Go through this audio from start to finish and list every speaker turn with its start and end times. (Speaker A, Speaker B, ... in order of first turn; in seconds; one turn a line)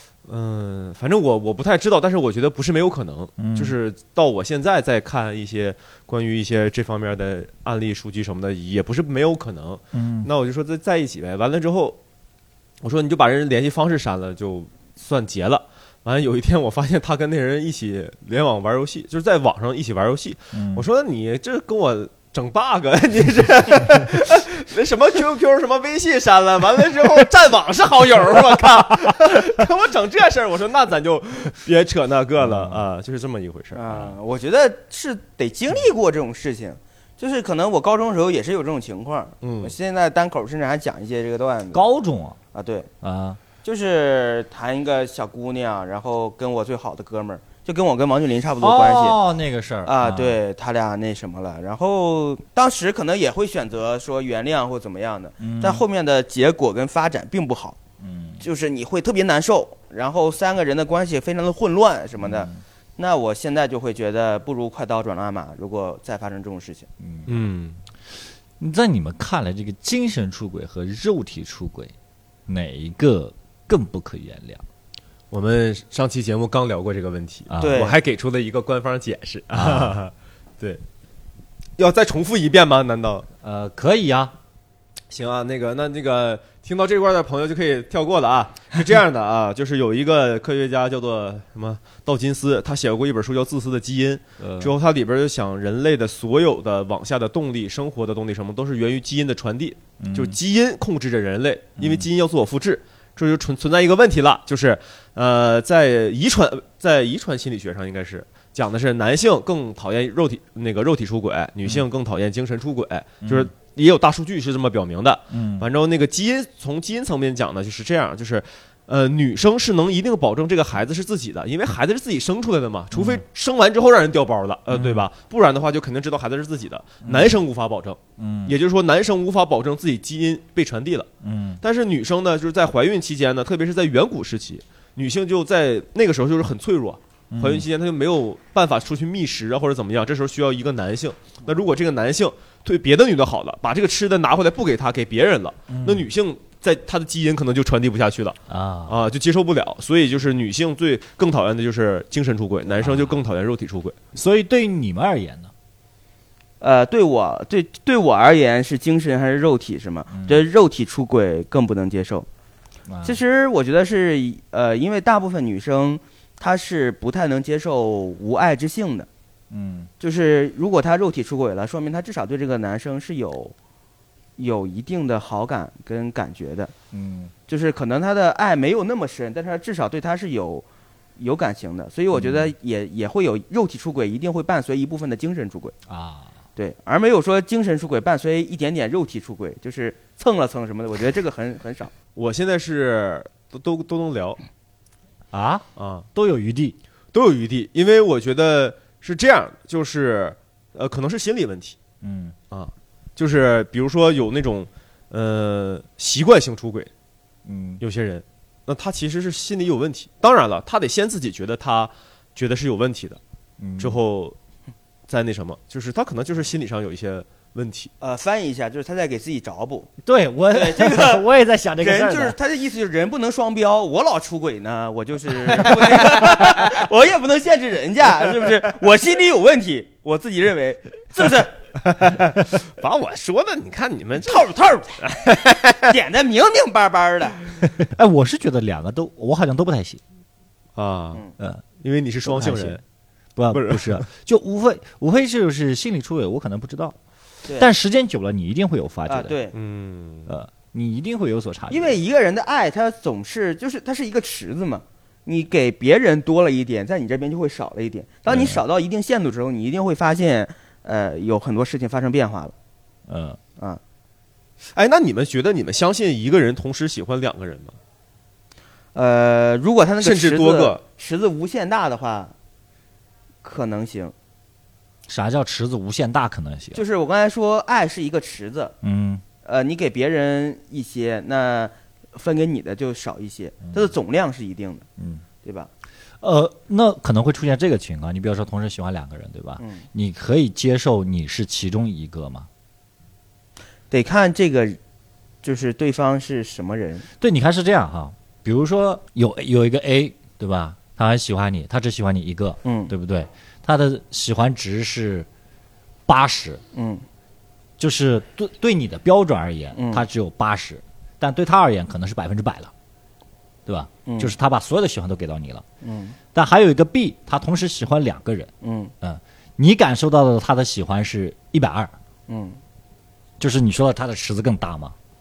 Speaker A: 0.2-12.0
Speaker B: 3.4-3.8
Speaker B: 9.9-10.3
Speaker A: 12.8-33.8
Speaker B: 20.5-20.8
Speaker B: 32.4-32.8
Speaker C: 33.7-41.8
Speaker A: 39.4-39.7
Speaker B: 41.7-42.4
Speaker C: 42.5-42.9
Speaker B: 43.0-43.4
Speaker C: 43.6-49.2
Speaker B: 48.6-50.4
Speaker C: 49.8-57.8
Speaker B: 55.4-55.8
Speaker B: 58.0-58.4
Speaker C: 58.4-66.9
Speaker B: 62.2-62.6
Speaker B: 67.0-67.4
Speaker A: 67.3-67.8
Speaker B: 68.6-71.9
Speaker B: 72.5-74.6
Speaker A: 75.3-80.8
Speaker B: 77.5-77.9
Speaker C: 77.6-78.0
Speaker B: 79.5-80.0
Speaker A: 81.8-83.3
Speaker B: 83.4-84.3
Speaker A: 85.1-131.1
Speaker B: 94.4-94.7
Speaker B: 100.0-100.4
Speaker B: 101.8-102.0
Speaker B: 113.2-113.5
Speaker B: 115.3-115.7
Speaker B: 122.9-123.2
Speaker B: 124.7-125.1
Speaker B: 127.0-127.3
Speaker B: 128.2-128.6
Speaker B: 131.2-131.6
Speaker A: 131.6-154.0
Speaker B: 137.3-137.7
Speaker B: 145.7-146.1
Speaker B: 148.5-149.0
Speaker B: 152.8-153.2
Speaker B: 154.1-155.5
Speaker C: 156.6-162.3
Speaker B: 160.1-160.4
Speaker B: 162.9-163.2
Speaker C: 163.0-169.1
Speaker B: 169.5-169.9
Speaker C: 170.0-173.5
Speaker C: 174.4-176.7
Speaker B: 176.9-177.3
Speaker C: 177.5-180.6
Speaker C: 181.2-185.7
Speaker B: 182.1-182.5
Speaker B: 185.9-186.3
Speaker C: 186.6-191.9
Speaker A: 192.2-194.4
Speaker B: 195.3-196.8
Speaker A: 195.8-196.1
Speaker A: 197.1-201.8
Speaker B: 202.0-202.3
Speaker A: 202.5-206.9
Speaker B: 207.4-207.8
Speaker A: 207.8-213.2
Speaker B: 213.6-214.0
Speaker A: 213.8-214.3
Speaker A: 215.1-217.9
Speaker C: 218.0-219.9
Speaker B: 220.0-222.3
Speaker C: 220.5-221.2
Speaker C: 221.8-231.5
Speaker A: 225.8-226.4
Speaker A: 232.0-234.5
Speaker C: 234.2-237.4
Speaker A: 235.1-235.9
Speaker B: 237.8-240.0
Speaker A: 240.8-241.2
Speaker A: 241.8-242.8
Speaker B: 242.2-242.8
Speaker B: 243.3-246.9
Speaker A: 243.5-244.0
Speaker B: 247.6-249.4
Speaker C: 249.1-249.5
Speaker A: 249.5-250.3
Speaker B: 250.3-252.0
Speaker C: 251.7-262.5
Speaker B: 258.3-258.6
Speaker B: 263.1-263.4
Speaker A: 264.7-267.8
Speaker C: 268.9-272.3
Speaker A: 270.0-270.8
Speaker C: 273.4-274.1
Speaker B: 275.1-276.8
Speaker C: 276.7-278.8
Speaker B: 278.8-279.2
Speaker C: 279.4-284.9
Speaker B: 285.0-285.2
Speaker C: 285.4-285.7
Speaker B: 286.2-292.5
Speaker C: 289.6-289.8
Speaker C: 293.9-294.8
Speaker C: 295.4-297.1
Speaker B: 297.2-305.3
Speaker C: 302.6-302.9
Speaker B: 306.1-306.6
Speaker C: 306.7-307.0
Speaker B: 307.8-312.7
Speaker C: 309.7-310.0
Speaker B: 313.6-315.6
Speaker C: 314.1-314.3
Speaker C: 315.8-316.1
Speaker B: 316.3-318.5
Speaker C: 318.6-318.9
Speaker B: 319.0-321.9
Speaker C: 322.3-322.6
Speaker B: 323.4-324.9